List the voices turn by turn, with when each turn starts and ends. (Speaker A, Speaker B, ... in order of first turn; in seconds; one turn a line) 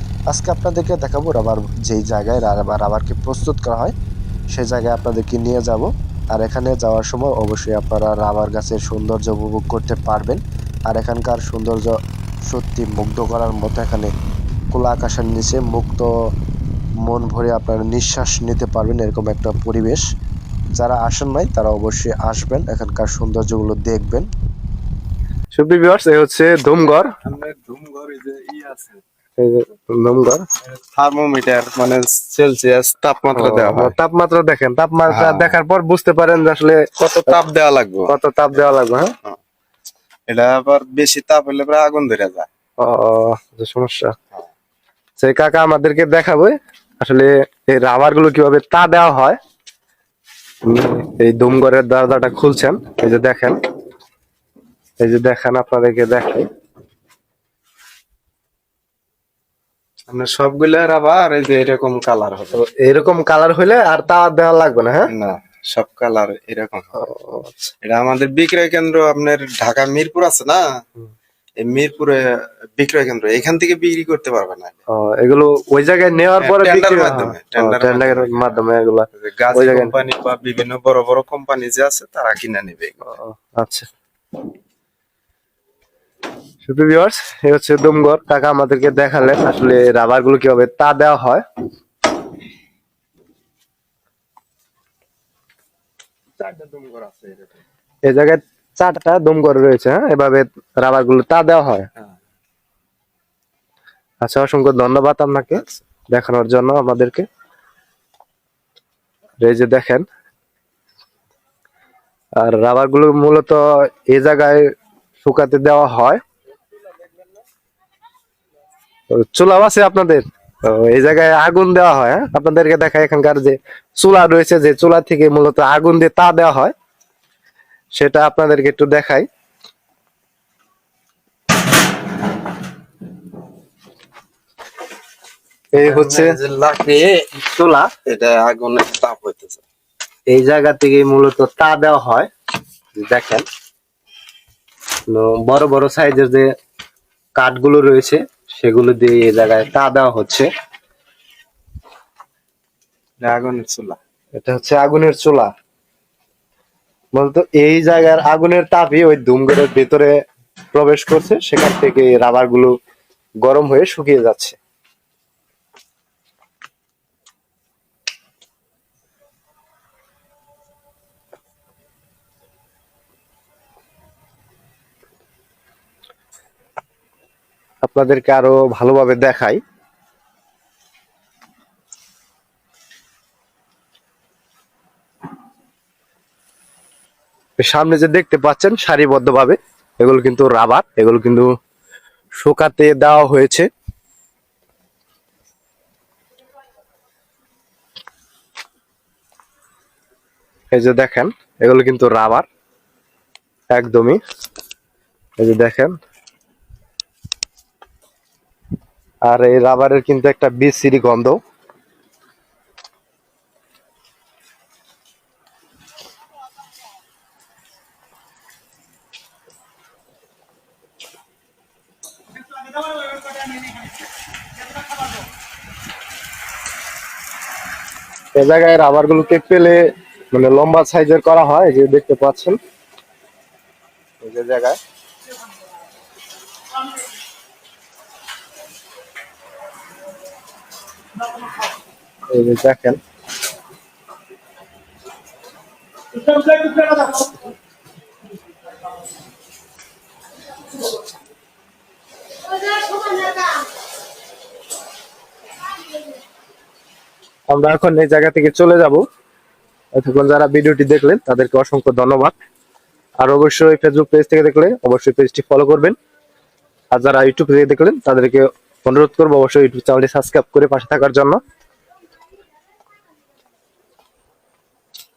Speaker A: 0.3-3.9
Speaker A: 4.5-12.0
Speaker A: 12.5-14.1
Speaker A: 14.7-16.1
Speaker A: 17.0-20.0
Speaker A: 20.7-24.3
Speaker B: 25.5-27.1
Speaker C: 27.2-29.0
Speaker B: 29.4-30.5
Speaker C: 30.6-33.9
Speaker B: 33.3-37.3
Speaker C: 35.1-35.6
Speaker C: 37.0-38.1
Speaker B: 38.1-39.1
Speaker C: 40.3-42.5
Speaker B: 42.8-44.1
Speaker B: 45.2-49.4
Speaker B: 50.6-53.6
Speaker B: 55.0-56.5
Speaker C: 60.1-62.6
Speaker B: 62.5-65.1
Speaker C: 65.1-67.1
Speaker B: 67.0-67.7
Speaker C: 67.8-70.6
Speaker C: 71.6-74.8
Speaker B: 74.9-80.0
Speaker C: 76.4-78.5
Speaker C: 79.2-83.1
Speaker B: 83.2-83.9
Speaker B: 86.6-91.4
Speaker C: 96.4-97.5
Speaker B: 98.0-101.9
Speaker B: 104.2-107.2
Speaker B: 109.4-110.0
Speaker B: 112.4-114.7
Speaker B: 115.2-116.2
Speaker B: 119.1-126.7
Speaker B: 127.9-129.3
Speaker B: 135.7-136.4
Speaker C: 135.8-137.4
Speaker B: 137.4-137.9
Speaker C: 138.0-139.6
Speaker B: 140.3-142.3
Speaker B: 142.9-143.4
Speaker B: 145.1-146.5
Speaker B: 147.3-150.5
Speaker C: 153.2-154.0
Speaker B: 154.3-155.5
Speaker B: 157.1-160.1
Speaker B: 160.7-162.7
Speaker B: 163.4-164.6
Speaker B: 177.8-179.6
Speaker B: 187.6-191.5
Speaker B: 192.4-193.7
Speaker B: 200.7-202.4
Speaker B: 203.7-204.2
Speaker B: 205.4-206.0
Speaker B: 209.2-211.4
Speaker B: 228.3-232.6
Speaker B: 234.2-234.8
Speaker B: 242.3-243.0
Speaker B: 246.3-247.1
Speaker B: 257.5-259.1
Speaker B: 259.9-262.3
Speaker B: 263.2-265.9
Speaker B: 266.9-271.4